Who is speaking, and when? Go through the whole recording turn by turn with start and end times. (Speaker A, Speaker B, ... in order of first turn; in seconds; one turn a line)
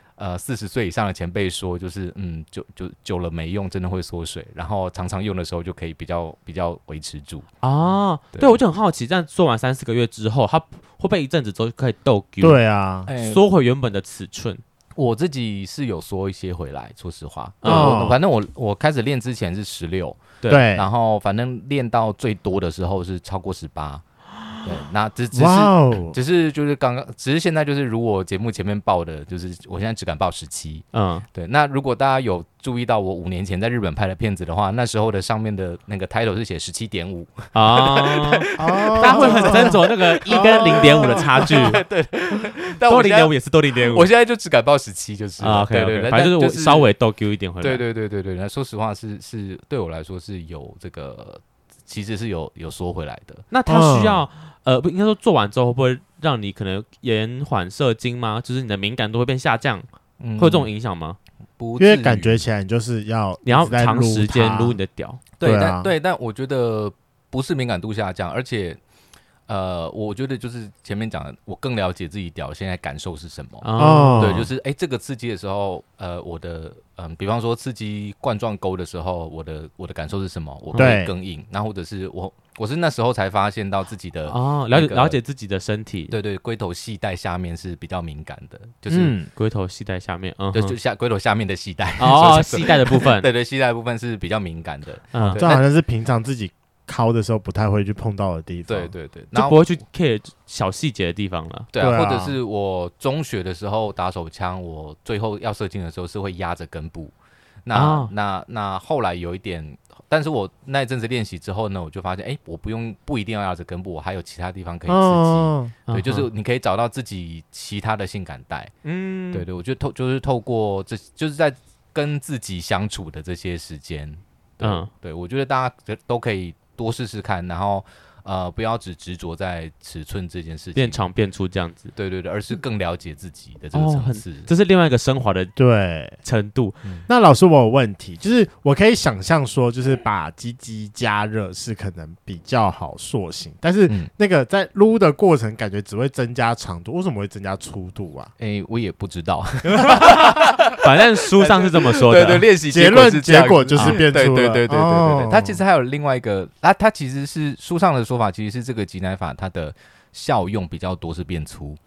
Speaker A: 0.2-7.5
Speaker B: 7.6-14.6
Speaker C: 12.4-13.1
Speaker A: 13.1-13.4
Speaker A: 14.9-24.0
Speaker B: 17.6-18.1
Speaker C: 17.6-18.2
Speaker C: 20.5-20.9
Speaker A: 24.6-46.9
Speaker C: 25.3-26.2
Speaker B: 30.9-31.2
Speaker B: 37.5-41.8
Speaker C: 38.6-39.8
Speaker C: 40.3-41.7
Speaker B: 42.9-44.1
Speaker B: 45.4-47.8
Speaker A: 47.6-53.5
Speaker B: 53.5-61.2
Speaker C: 53.7-54.2
Speaker A: 60.2-60.7
Speaker A: 61.6-62.4
Speaker C: 61.8-64.8
Speaker B: 63.4-65.2
Speaker A: 65.4-68.8
Speaker C: 65.4-65.9
Speaker A: 69.5-85.2
Speaker B: 73.6-74.4
Speaker C: 73.8-74.5
Speaker C: 80.7-81.1
Speaker B: 84.3-86.1
Speaker A: 86.1-89.2
Speaker C: 88.9-89.3
Speaker B: 89.3-90.8
Speaker A: 90.5-95.7
Speaker B: 92.0-93.3
Speaker B: 95.1-95.4
Speaker C: 95.4-98.9
Speaker A: 98.7-99.6
Speaker B: 99.3-101.7
Speaker A: 101.7-107.1
Speaker C: 101.8-102.4
Speaker A: 107.7-118.7
Speaker B: 107.7-108.1
Speaker C: 114.9-115.7
Speaker B: 115.9-116.3
Speaker B: 118.8-119.4
Speaker A: 119.3-131.0
Speaker B: 124.6-124.9
Speaker B: 130.8-131.9
Speaker A: 131.9-134.5
Speaker B: 133.7-135.6
Speaker C: 135.6-136.2
Speaker B: 136.2-136.8
Speaker C: 137.1-148.3
Speaker A: 148.4-161.8
Speaker C: 149.7-150.0
Speaker B: 149.8-152.5
Speaker C: 152.7-155.6
Speaker B: 153.8-154.0